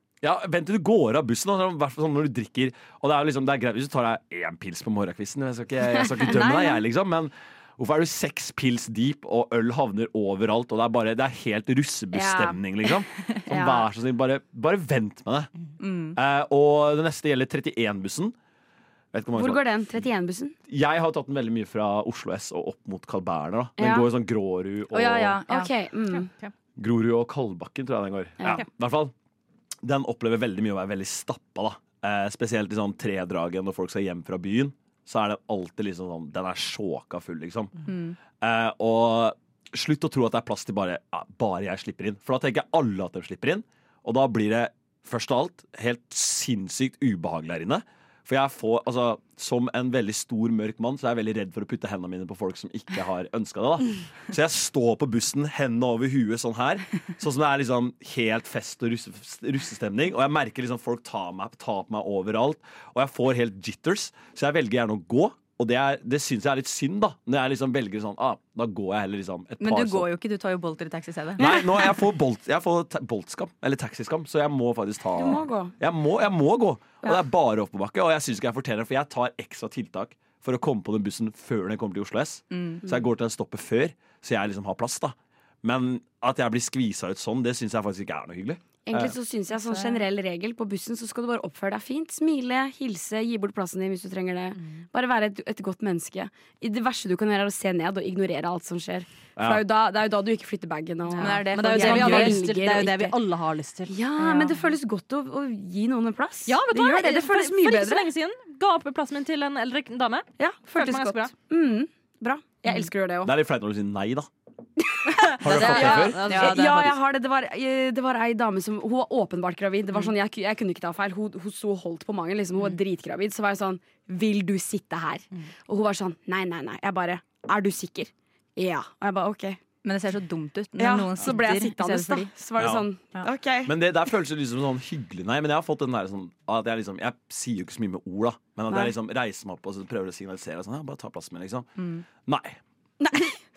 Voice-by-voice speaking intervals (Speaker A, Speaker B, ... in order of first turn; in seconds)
Speaker A: 0.2-15.5, 16.1-18.3, 19.1-19.6, 20.7-25.4, 26.8-29.1, 29.8-37.7, 38.4-70.1, 71.4-89.2, 99.4-99.6, 113.2-114.3, 115.3-116.2, 132.6-132.9, 133.6-141.7, 142.2-142.6
Speaker B: 6.2-6.8, 13.4-13.8, 15.8-16.2, 24.9-25.7, 37.9-38.1, 69.6-71.5, 82.5-82.8, 101.2-102.4, 104.2-104.5, 115.5-116.7, 129.8-132.3, 141.8-142.0
Speaker C: 12.1-12.6, 19.3-20.5, 23.8-24.1, 25.5-26.3, 71.4-71.7, 75.2-75.7, 88.8-103.1, 103.9-108.1, 110.4-113.3, 115.3-129.6, 130.8-133.7, 143.0-143.4
Speaker D: 26.1-26.5, 101.1-104.5, 106.5-111.3, 115.3-117.0